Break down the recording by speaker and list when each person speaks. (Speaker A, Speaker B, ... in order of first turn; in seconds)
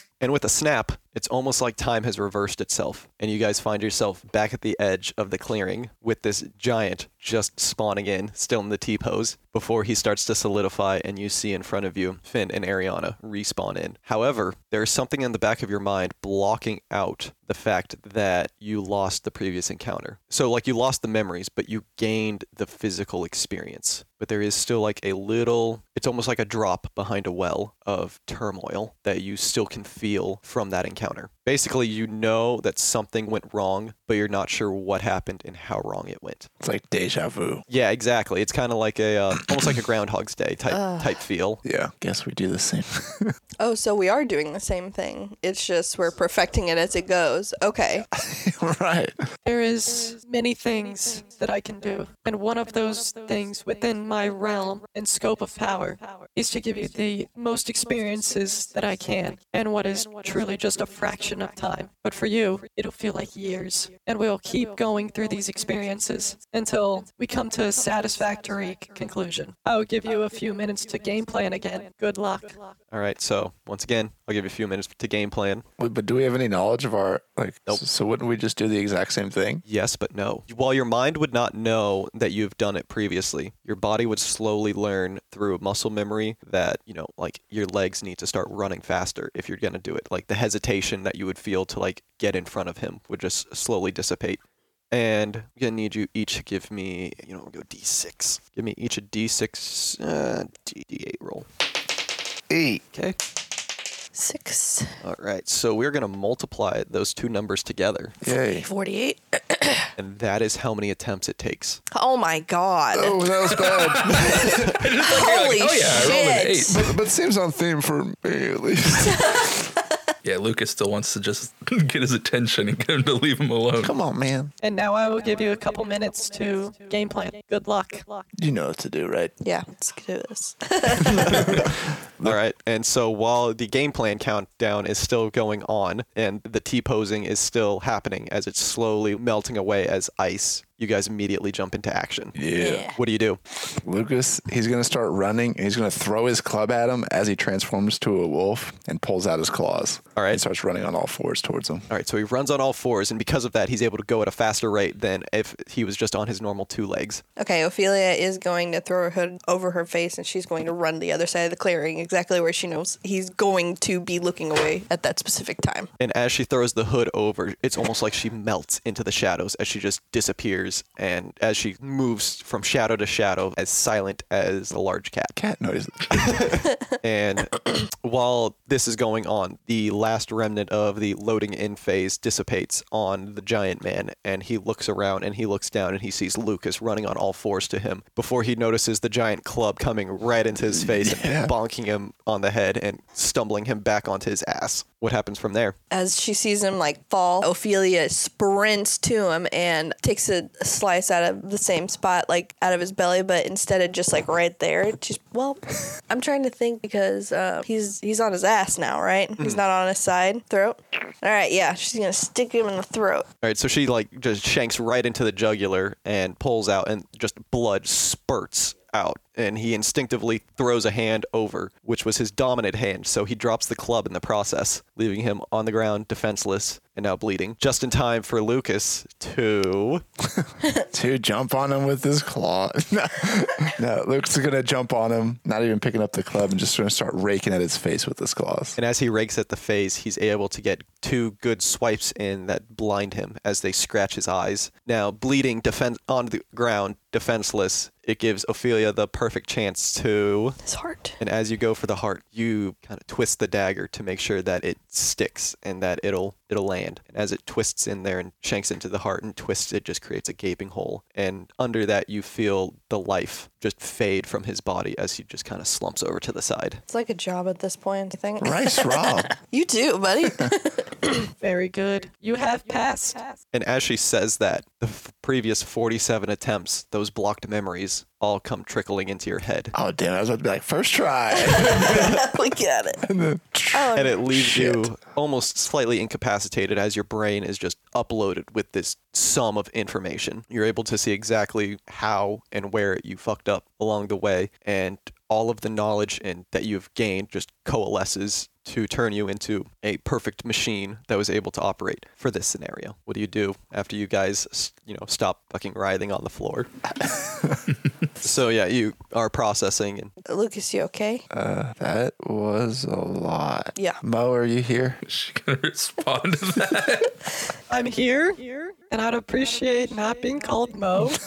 Speaker A: 0.2-36.5, 37.7-41.6, 72.9-75.6, 79.7-94.4, 94.9-101.5, 105.0-108.2, 110.0-111.8, 132.2-142.4, 142.9-143.4, 151.9-157.2, 166.0-175.3, 176.1-195.8, 213.4-230.0, 238.8-250.6, 251.2-266.8, 273.5-279.7, 283.9-306.7, 308.2-310.1
Speaker B: 36.6-37.6, 41.6-43.4, 48.1-49.2, 75.8-79.6, 102.5-102.8, 108.2-108.7, 112.9-114.6, 116.7-119.5, 123.8-124.5, 128.4-129.3, 131.1-132.4, 142.3-142.9, 143.8-151.8, 175.3-176.5, 190.6-191.5, 230.4-238.8, 268.4-269.3, 279.7-282.3, 283.0-284.9, 307.0-307.6, 311.3-315.0
Speaker C: 40.7-41.1, 43.6-48.1, 104.1-105.0, 108.7-109.9, 111.9-113.3, 114.1-116.8, 119.0-119.6, 129.4-131.7, 142.6-142.9, 157.4-165.9, 195.9-213.3, 250.6-251.2, 266.9-271.3, 281.4-283.0, 283.7-284.2, 310.3-311.2
Speaker D: 49.5-72.7, 124.6-128.2, 271.4-273.4, 317.7-321.2
Speaker E: 113.9-116.8, 120.2-123.9, 315.1-317.1